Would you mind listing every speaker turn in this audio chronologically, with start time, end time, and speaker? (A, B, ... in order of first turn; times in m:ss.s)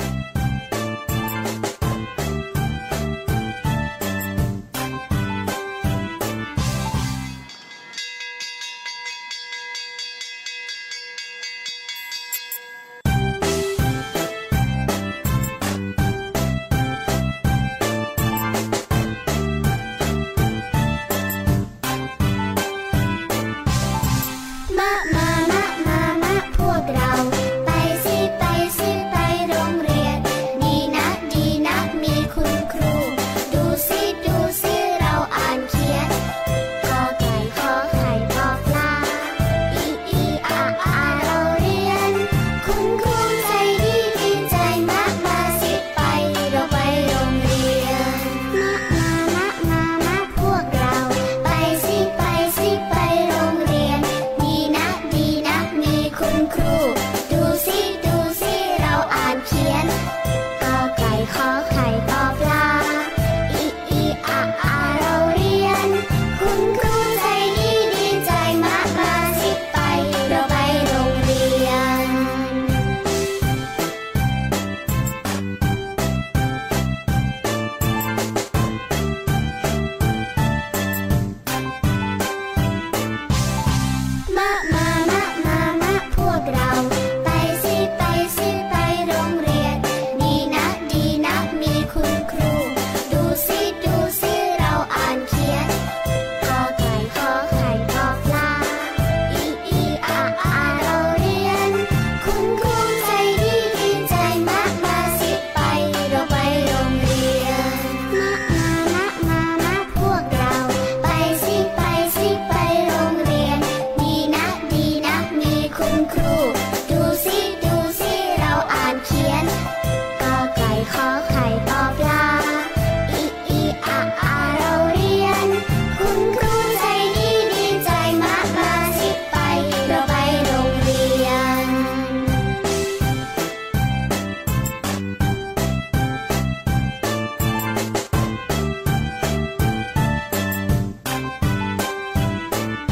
0:24.7-0:36.1 A
0:36.8-1:00.0 A
1:00.6-1:12.8 A
1:24.3-1:35.7 A
1:36.4-1:59.6 A
2:00.2-2:12.4 A